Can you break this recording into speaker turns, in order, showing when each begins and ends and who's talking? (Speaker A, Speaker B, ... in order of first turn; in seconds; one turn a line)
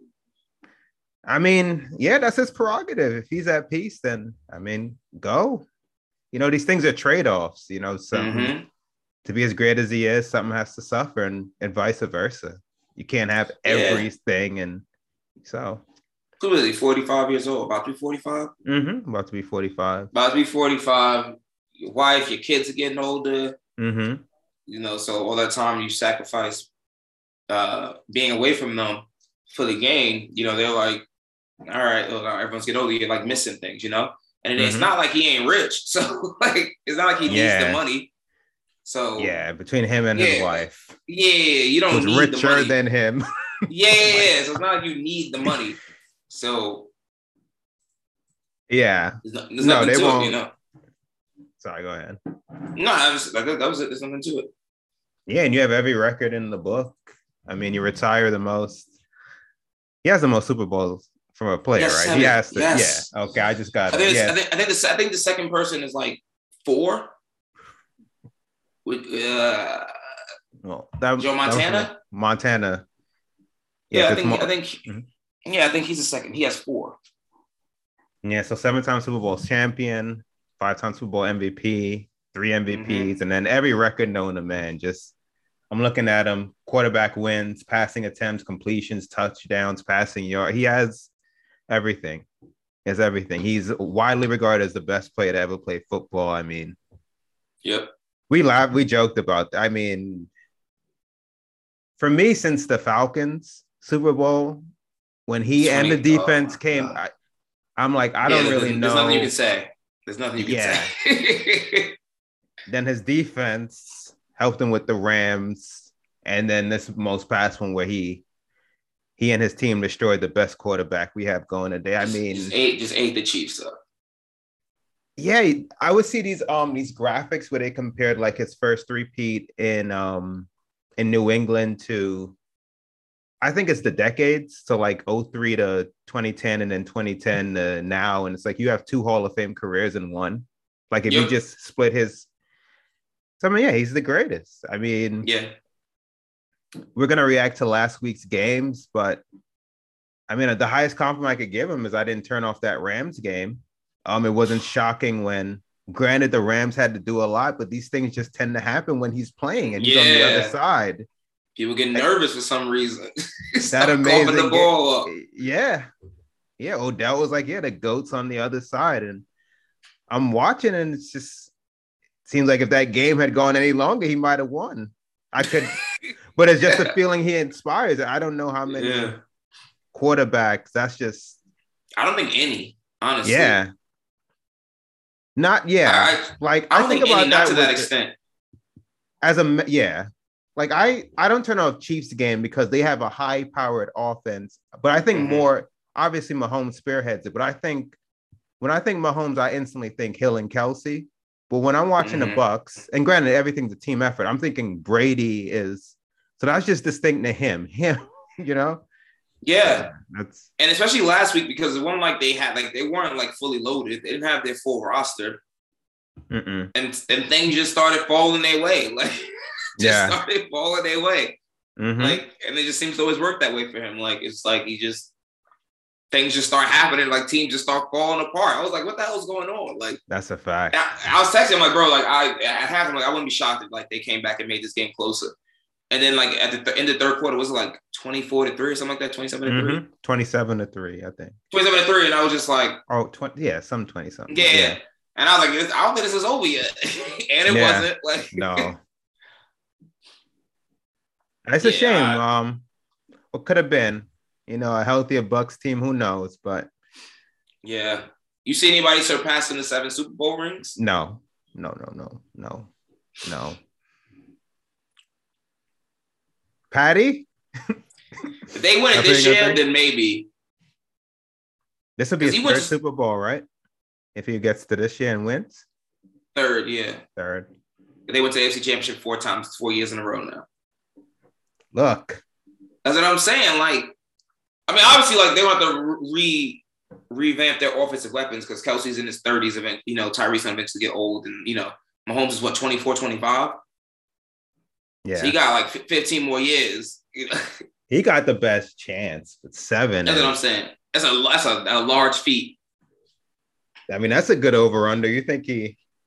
Speaker A: 1.2-5.7
Speaker A: 6.3-8.5
Speaker B: 8.1-8.7
Speaker A: 9.2-14.8
Speaker B: 13.7-14.1
Speaker A: 15.4-15.8
Speaker B: 16.4-18.5
Speaker A: 18.6-20.1
Speaker B: 20.1-23.6
Speaker A: 23.8-24.2
Speaker B: 24.7-26.7
Speaker B: 27.5-31.0
Speaker B: 31.6-38.1
Speaker A: 34.6-34.9
Speaker A: 37.2-37.8
Speaker B: 38.8-39.3
Speaker A: 39.2-40.9
Speaker B: 40.1-42.8
Speaker A: 41.9-43.2
Speaker B: 43.7-46.9
Speaker A: 44.0-44.4
Speaker A: 48.7-50.4
Speaker B: 49.2-50.5
Speaker A: 51.6-52.2
Speaker B: 52.8-54.5
Speaker A: 55.3-58.9
Speaker A: 60.0-64.4
Speaker B: 61.8-63.1
Speaker B: 63.9-67.1
Speaker B: 68.8-69.9
Speaker A: 70.6-72.8
Speaker B: 71.2-72.0
Speaker A: 73.9-75.0
Speaker B: 73.9-74.8
Speaker B: 75.4-77.0
Speaker A: 78.2-85.1
Speaker B: 82.7-83.1
Speaker A: 85.7-91.1
Speaker A: 91.7-92.2
Speaker A: 92.8-96.8
Speaker B: 97.6-97.9
Speaker A: 98.3-100.3
Speaker A: 102.0-104.6
Speaker A: 105.3-107.1
Speaker B: 105.6-107.0
Speaker A: 107.8-109.3
Speaker B: 108.2-111.9
Speaker A: 110.4-110.9
Speaker A: 112.7-118.2
Speaker A: 119.2-122.5
Speaker B: 122.3-123.7
Speaker A: 125.2-132.4
Speaker A: 133.4-142.3
Speaker B: 141.1-141.3
Speaker A: 143.4-145.3
Speaker B: 145.2-145.5
Speaker A: 146.9-149.2
Speaker A: 150.3-161.1
Speaker B: 159.8-160.5
Speaker B: 161.6-165.1
Speaker A: 163.7-165.9
Speaker A: 166.6-169.2
Speaker A: 170.1-171.5
Speaker A: 172.3-175.8
Speaker B: 175.6-176.1
Speaker A: 176.4-179.2
Speaker B: 176.7-176.9
Speaker B: 178.7-179.2
Speaker A: 179.9-181.4
Speaker B: 182.0-183.6
Speaker A: 183.2-183.7
Speaker A: 185.4-187.9
Speaker B: 185.9-188.1
Speaker A: 189.2-198.0
Speaker B: 195.1-195.5
Speaker A: 198.6-208.8
Speaker B: 202.0-202.4
Speaker B: 209.4-209.9
Speaker A: 209.6-210.5
Speaker B: 210.6-215.4
Speaker A: 216.3-216.7
Speaker B: 216.8-219.2
Speaker A: 219.8-220.2
Speaker B: 219.8-221.4
Speaker A: 221.8-222.2
Speaker B: 222.0-225.1
Speaker B: 226.1-230.0
Speaker A: 230.1-230.8
Speaker B: 230.7-235.3
Speaker B: 235.9-239.8
Speaker A: 239.4-241.3
Speaker B: 241.5-242.8
Speaker A: 242.9-244.8
Speaker B: 244.3-248.7
Speaker A: 247.5-248.8
Speaker A: 251.5-252.6
Speaker B: 251.6-252.2
Speaker A: 253.3-256.7
Speaker B: 257.6-260.8
Speaker A: 260.8-262.7
Speaker A: 263.2-263.6
Speaker A: 266.7-267.3
Speaker B: 268.5-270.3
Speaker A: 268.9-269.6
Speaker A: 272.0-273.4
Speaker B: 272.2-272.7
Speaker A: 274.1-275.6
Speaker B: 276.4-277.0
Speaker A: 277.1-277.5
Speaker B: 278.1-280.4
Speaker A: 281.7-282.2
Speaker B: 282.9-283.9
Speaker B: 284.7-293.6
Speaker A: 295.0-295.4
Speaker B: 295.2-297.6
Speaker A: 297.9-300.4
Speaker B: 300.0-302.6
Speaker A: 303.9-305.8